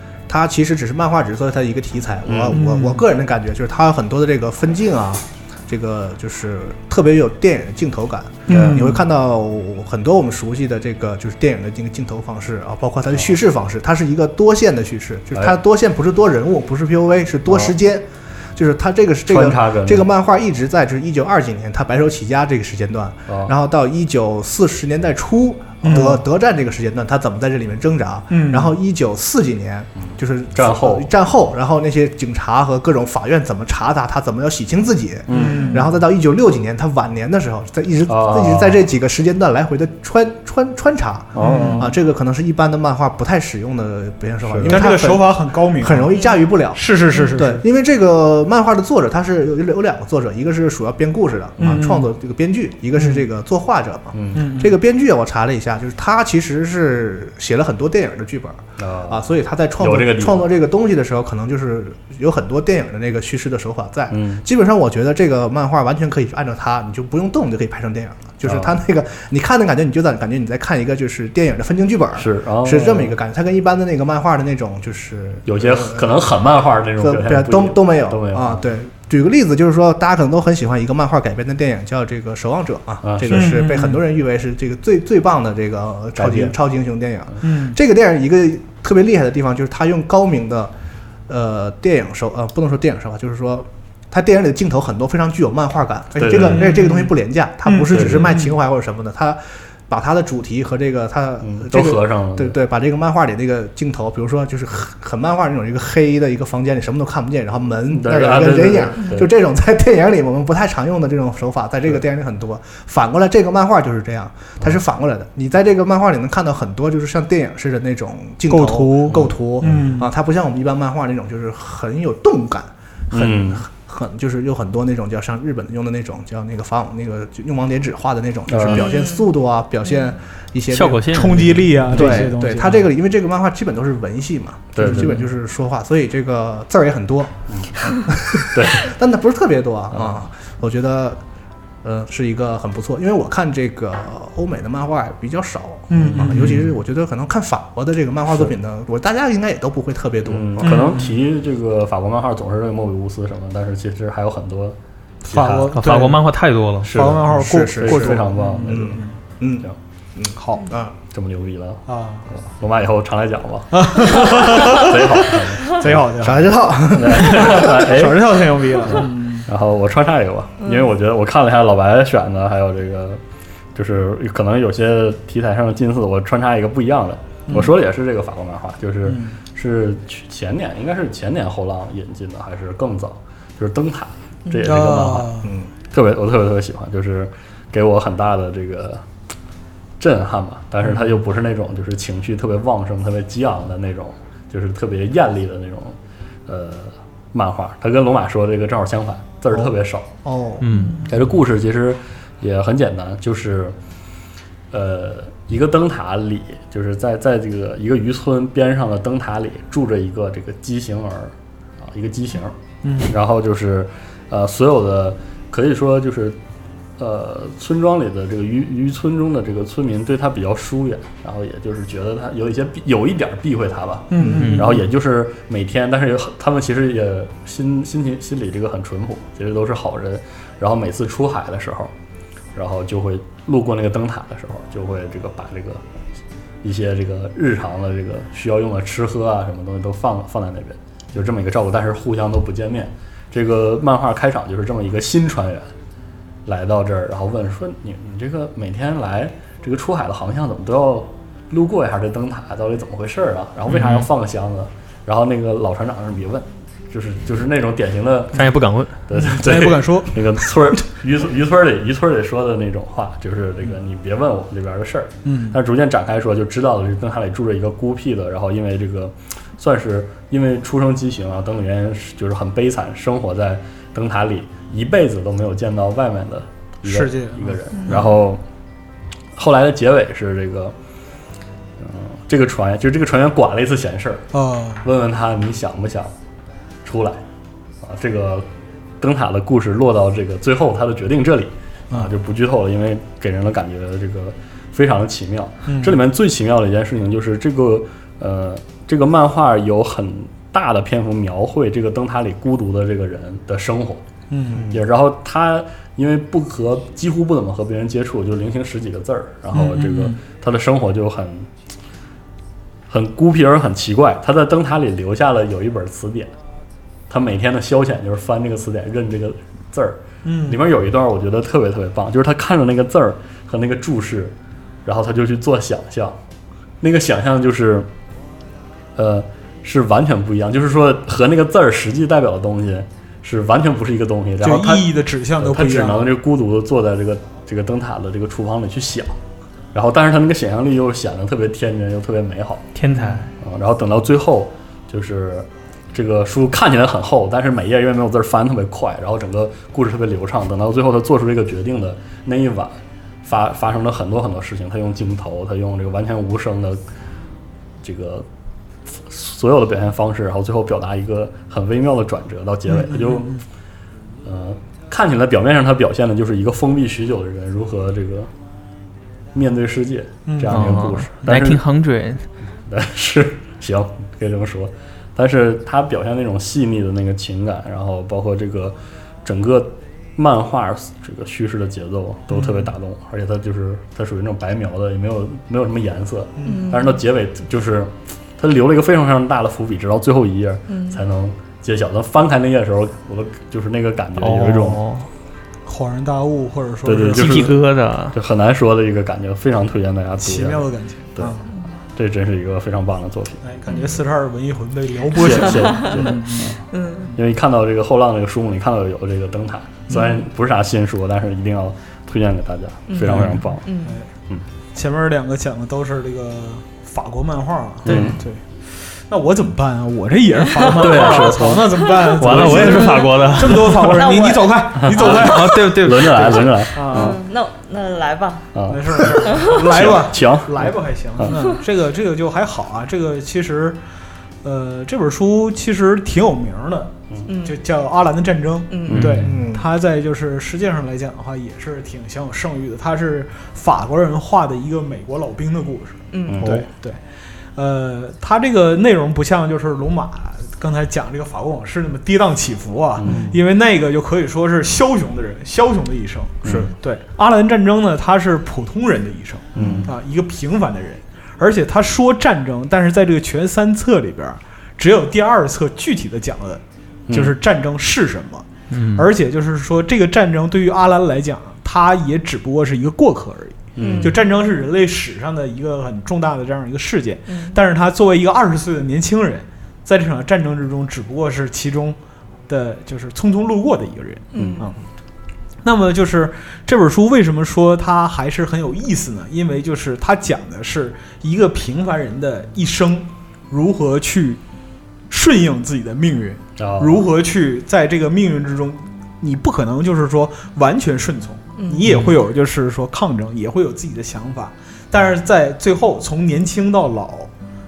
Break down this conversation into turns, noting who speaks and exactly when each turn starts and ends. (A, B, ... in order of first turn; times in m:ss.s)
0:00.3-1:16.3 A
0:02.2-0:02.6 B
0:02.5-0:03.0 C
0:08.5-0:09.0 C
0:08.5-0:08.9 B
0:17.5-0:17.7 B
0:19.3-0:20.1 B
0:23.3-0:23.5 B
0:25.8-0:26.2 C
0:28.3-0:28.7 C
0:30.0-0:31.1 B
0:35.3-0:35.7 B
0:35.3-0:35.9 C
0:35.4-0:35.8 D
0:38.1-0:38.8 B
0:41.3-0:41.9 B
0:41.4-0:42.0 C
0:44.4-0:44.9 B
0:44.7-0:46.2 C
0:46.1-0:46.4 D
0:46.7-0:47.6 C
0:51.6-0:52.1 C
0:53.0-0:53.2 C
0:54.1-0:54.5 B
0:54.4-0:54.8 C
0:58.8-1:00.5 B
1:04.1-1:04.4 B
1:08.4-1:08.7 B
1:12.2-1:13.2 B
1:15.5-1:18.6 B
1:17.0-1:30.7 A
1:23.0-1:23.6 B
1:23.3-1:24.0 C
1:26.2-1:26.6 B
1:27.4-1:27.8 C
1:31.3-2:11.2 A
1:36.2-1:36.8 B
1:36.3-1:37.1 C
1:37.7-1:38.5 C
1:37.9-1:38.4 B
1:41.4-1:42.6 B
1:47.9-1:49.3 B
1:58.5-2:00.1 C
1:59.1-2:00.0 B
2:03.1-2:03.6 B
2:08.5-2:08.9 B
2:08.7-2:09.3 D
2:10.7-2:11.6 E
2:11.1-2:12.8 C
2:11.9-2:21.2 A
2:14.8-2:15.2 B
2:14.8-2:15.2 C
2:17.5-2:18.0 B
2:18.5-2:18.9 B
2:21.8-2:30.9 A
2:25.9-2:26.6 C
2:26.0-2:26.5 B
2:30.3-2:35.8 B
2:30.6-2:31.1 C
2:35.2-2:36.3 C
2:35.7-2:36.9 E
2:36.8-2:39.1 B
2:36.9-2:39.1 C
2:37.2-2:39.6 A
2:40.2-2:40.9 A
2:40.4-2:40.7 C
2:41.1-2:46.3 B
2:41.9-2:42.3 C
2:43.7-2:46.5 C
2:46.2-2:47.9 A
2:46.9-2:53.2 B
2:47.1-2:49.5 C
2:53.8-3:09.0 B
2:57.5-2:57.7 C
2:59.1-2:59.4 C
3:04.6-3:05.5 C
3:10.0-3:20.1 B
3:20.2-3:20.7 A
3:20.6-3:21.0 E
3:21.0-3:23.8 B
3:24.7-3:36.4 B
3:32.8-3:33.2 C
3:37.0-3:51.9 B
3:44.1-3:44.8 C
3:44.2-3:44.5 A
3:44.3-3:44.6 E
3:52.6-3:55.8 B
3:56.6-4:05.7 B
4:06.5-4:18.5 B
4:18.4-4:19.0 E
4:19.1-4:38.4 B
4:19.1-4:20.5 C
4:25.2-4:25.6 C
4:36.8-4:38.1 C
4:39.4-4:40.7 B
4:41.8-4:44.3 B
4:44.3-4:44.8 C
4:44.8-4:46.1 B
4:46.8-4:47.2 B
4:47.8-4:48.5 B
4:49.0-5:04.0 B
4:55.7-4:56.0 C
5:04.3-5:04.7 C
5:04.7-5:11.5 B
5:09.5-5:10.2 C
5:12.9-5:16.3 B
5:17.1-5:24.3 B
5:20.2-5:20.6 C
5:24.8-5:26.2 B
5:26.8-5:27.9 B
5:29.0-5:39.2 B
5:34.4-5:36.1 C
5:39.7-5:42.7 B
5:42.8-5:43.3 E
5:42.9-5:43.2 C
5:43.4-5:56.8 B
5:57.8-5:58.3 B
5:58.9-6:03.4 B
6:02.7-6:03.4 C
6:04.2-6:08.3 B
6:09.3-6:11.6 B
6:10.3-6:10.8 C
6:10.5-6:12.2 E
6:12.7-6:34.8 B
6:26.4-6:26.6 C
6:26.4-6:27.0 D
6:30.7-6:31.0 D
6:34.2-6:35.1 E
6:35.7-6:37.6 C
6:36.8-6:37.6 B
6:37.1-6:38.2 E
6:38.1-6:41.4 B
6:40.2-6:41.5 C
6:42.0-6:43.4 B
6:43.4-6:46.6 C
6:43.7-6:44.0 D
6:45.2-6:46.6 B
6:45.6-6:46.1 D
6:46.7-6:47.1 D
6:47.1-6:53.6 B
6:49.9-6:50.2 C
6:52.9-6:54.0 D
6:53.0-6:54.1 C
6:54.7-7:07.2 C
6:57.8-6:58.2 B
7:00.6-7:02.8 B
7:02.1-7:04.0 E
7:02.6-7:05.2 D
7:04.8-7:07.2 B
7:05.0-7:06.5 E
7:06.9-7:08.4 D
7:08.5-7:11.3 B
7:08.7-7:13.8 C
7:09.3-7:09.6 D
7:14.4-7:27.0 C
7:17.3-7:17.6 D
7:18.7-7:19.1 D
7:18.9-7:19.4 B
7:19.2-7:19.7 A
7:26.1-7:26.4 D
7:26.3-7:26.6 B
7:27.6-8:04.8 C
7:33.0-7:33.3 B
7:33.1-7:33.3 A
7:36.4-7:36.7 B
7:36.4-7:36.7 A
7:39.6-7:39.9 B
7:47.1-7:47.4 B
7:48.7-7:49.1 E
7:53.8-7:54.2 B
7:53.8-7:54.2 D
7:57.3-7:57.6 D
8:04.3-8:04.7 D
8:04.4-8:04.6 B
8:05.6-8:14.4 C
8:15.1-8:27.3 C
8:16.6-8:17.1 B
8:21.6-8:21.8 D
8:21.9-8:22.1 E